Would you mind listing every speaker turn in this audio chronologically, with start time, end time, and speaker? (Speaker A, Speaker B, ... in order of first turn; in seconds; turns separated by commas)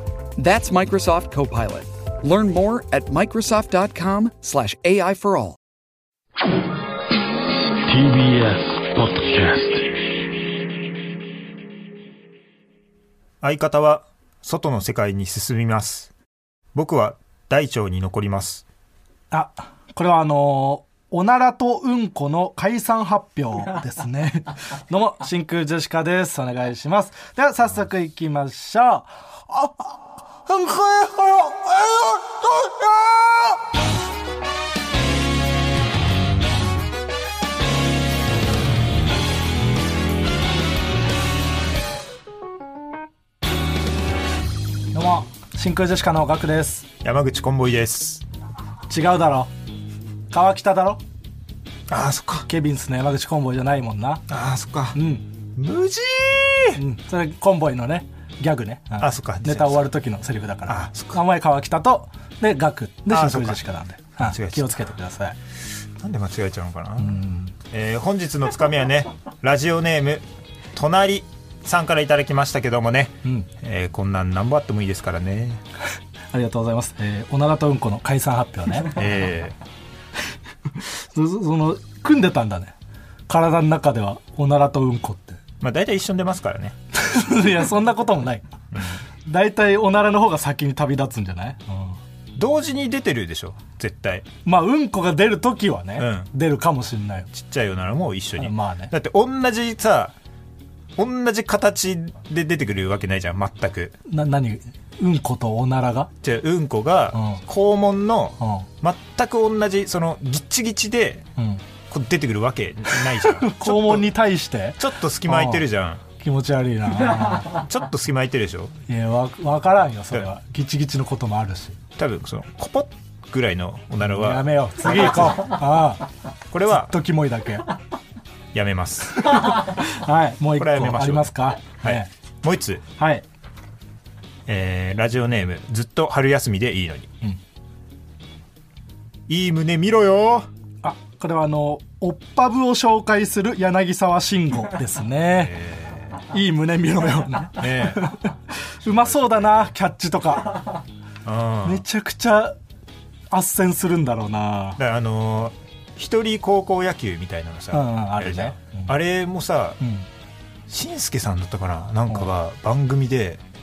Speaker A: 0.4-5.6, Speaker B: 7.9-9.9, Speaker C: 13.4-16.1, Speaker C: 16.8-18.6, Speaker D: 19.3-29.9, Speaker D: 30.5-33.3, Speaker D: 44.9-46.9, Speaker C: 47.0-48.2, Speaker D: 48.9-49.5, Speaker D: 50.3-51.0, Speaker C: 51.9-52.5, Speaker D: 52.5-54.3, Speaker C: 54.3-55.0, Speaker D: 54.9-55.3, Speaker C: 55.5-56.8, Speaker D: 56.8-65.4, Speaker C: 59.0-59.9, Speaker C: 60.7-61.2, Speaker C: 63.1-63.6, Speaker C: 64.2-64.9, Speaker C: 66.0-75.6, Speaker D: 67.0-67.5, Speaker D: 73.2-73.5, Speaker D: 76.3-79.0, Speaker C: 78.8-79.5, Speaker D: 80.8-82.7, Speaker D: 83.3-85.4, Speaker C: 85.6-86.8, Speaker D: 86.9-88.5, Speaker C: 88.7-89.0, Speaker D: 89.2-92.0, Speaker C: 92.3-94.3, Speaker D: 94.5-97.3, Speaker C: 96.0-96.3, Speaker C: 97.3-100.2, Speaker D: 98.4-98.9, Speaker C: 101.0-104.0, Speaker D: 104.0-106.1, Speaker C: 106.2-111.3, Speaker D: 107.1-107.4, Speaker D: 108.4-108.7, Speaker D: 111.4-111.6, Speaker C: 111.9-114.1, Speaker D: 113.1-115.7, Speaker C: 114.8-116.0, Speaker D: 116.2-117.6, Speaker C: 117.0-118.8, Speaker D: 118.9-121.8, Speaker C: 122.0-125.6, Speaker D: 124.1-126.1, Speaker C: 126.5-126.9, Speaker D: 126.7-127.7, Speaker C: 128.5-129.7, Speaker D: 129.2-132.1, Speaker C: 130.5-132.8, Speaker D: 133.0-133.2, Speaker C: 134.5-137.1, Speaker C: 139.3-140.5, Speaker D: 140.8-145.6, Speaker C: 145.3-146.2, Speaker D: 146.2-150.8, Speaker C: 147.6-148.2, Speaker C: 148.8-149.8, Speaker C: 151.2-151.8, Speaker D: 151.6-152.6, Speaker D: 153.3-154.8, Speaker C: 154.8-159.8, Speaker D: 157.7-158.9, Speaker D: 159.8-160.1, Speaker C: 160.7-163.4